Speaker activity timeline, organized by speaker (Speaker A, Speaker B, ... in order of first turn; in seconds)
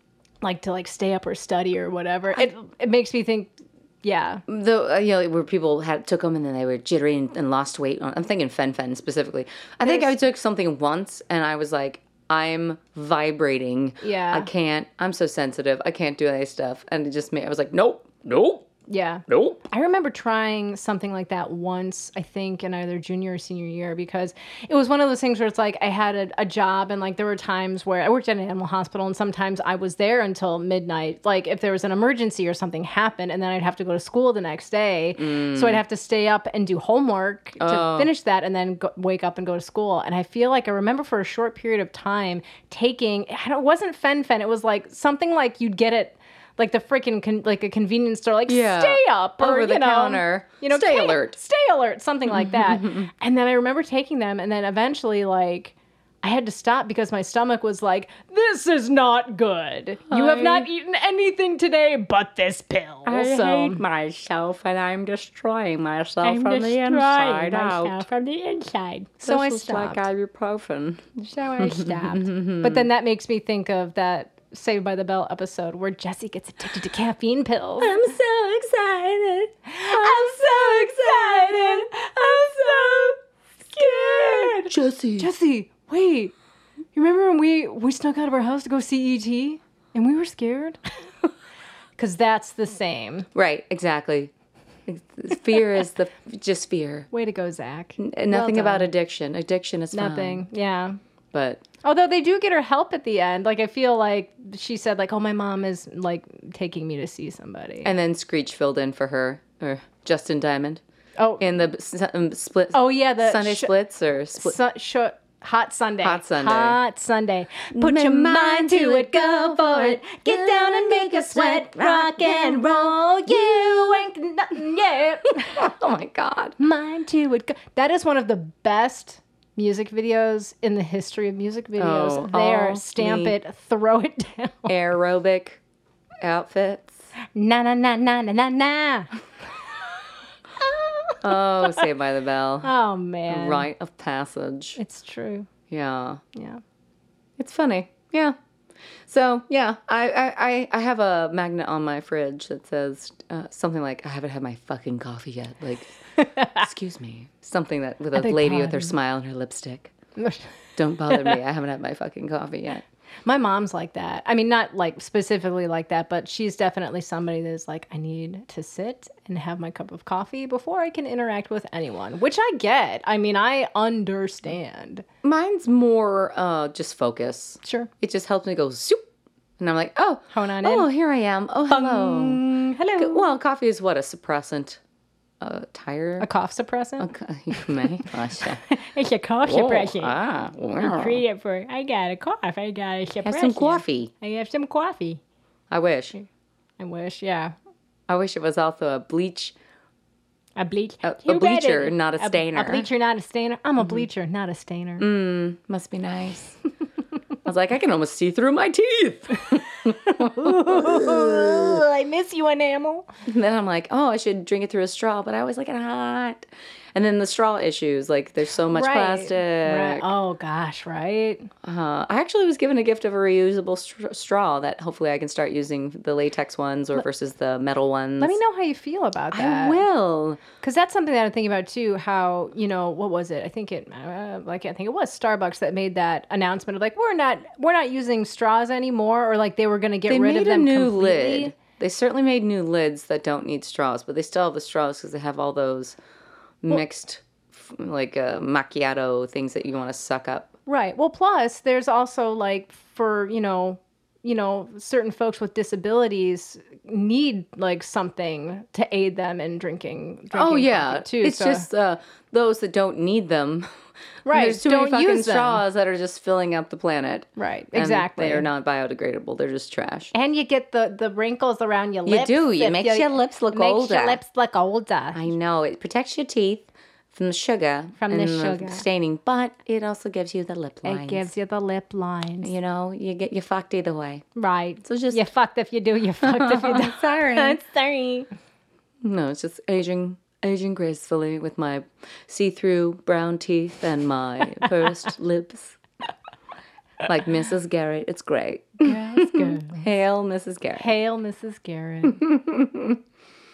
Speaker A: 0.4-4.4, 9.8-10.1, 14.0-14.5, 18.9-63.8, 66.2-70.1, 71.2-78.0, 79.7-83.2, 83.7-86.3, 86.9-90.8, 92.0-93.3, 97.1-98.9, 99.9-101.0, 101.8-107.9, 111.2-111.6, 112.7-113.7, 114.3-125.5, 126.6-134.7, 137.2-139.1, 140.6-141.8, 142.6-143.7, 144.8-145.5, 146.3-146.6, 156.2-156.6, 158.1-158.9, 160.2-160.5, 161.1-161.4, 163.2-175.0, 177.6-177.9, 180.3-180.9, 181.7-183.3, 186.2-187.7, 188.5-190.2, 190.8-195.2, 196.8-197.5, 200.6-205.1, 209.9-213.1, 218.7-221.5, 228.2-229.8, 230.6-241.5, 250.7-261.7, 264.2-265.6, 267.4-268.5, 270.1-275.3, 278.0-278.8, 280.8-282.5, 284.3-288.3, 298.8-299.8, 300.8-302.2
Speaker B: 4.5-18.7, 19.3-19.6, 35.2-35.8, 37.6-38.1, 48.5-51.4, 52.3-53.1, 60.1-60.7, 63.0-68.0, 69.2-71.0, 71.6-72.9, 77.8-83.1, 83.7-85.3, 93.3-94.3, 94.9-97.1, 98.0-100.4, 101.3-101.6, 107.8-110.8, 111.4-114.5, 116.0-116.8, 117.7-123.9, 125.4-126.6, 131.8-133.3, 134.7-135.6, 136.2-137.1, 141.2-142.7, 143.3-144.8, 145.7-146.2, 147.4-148.3, 149.1-159.9, 160.8-162.8, 175.2-179.0, 179.6-182.4, 182.9-184.8, 185.4-186.3, 187.0-188.6, 189.4-191.2, 193.2-194.1, 195.7-196.2, 198.1-199.5, 201.0-202.9, 205.0-206.6, 207.4-211.8, 213.3-220.1, 221.6-228.4, 229.3-230.4, 240.1-246.0, 246.6-250.5, 260.3-263.7, 264.3-270.1, 272.1-274.2, 275.1-281.3, 282.4-284.2, 284.8-285.2, 286.2-287.6, 289.0-295.8, 297.0-300.9, 302.0-303.0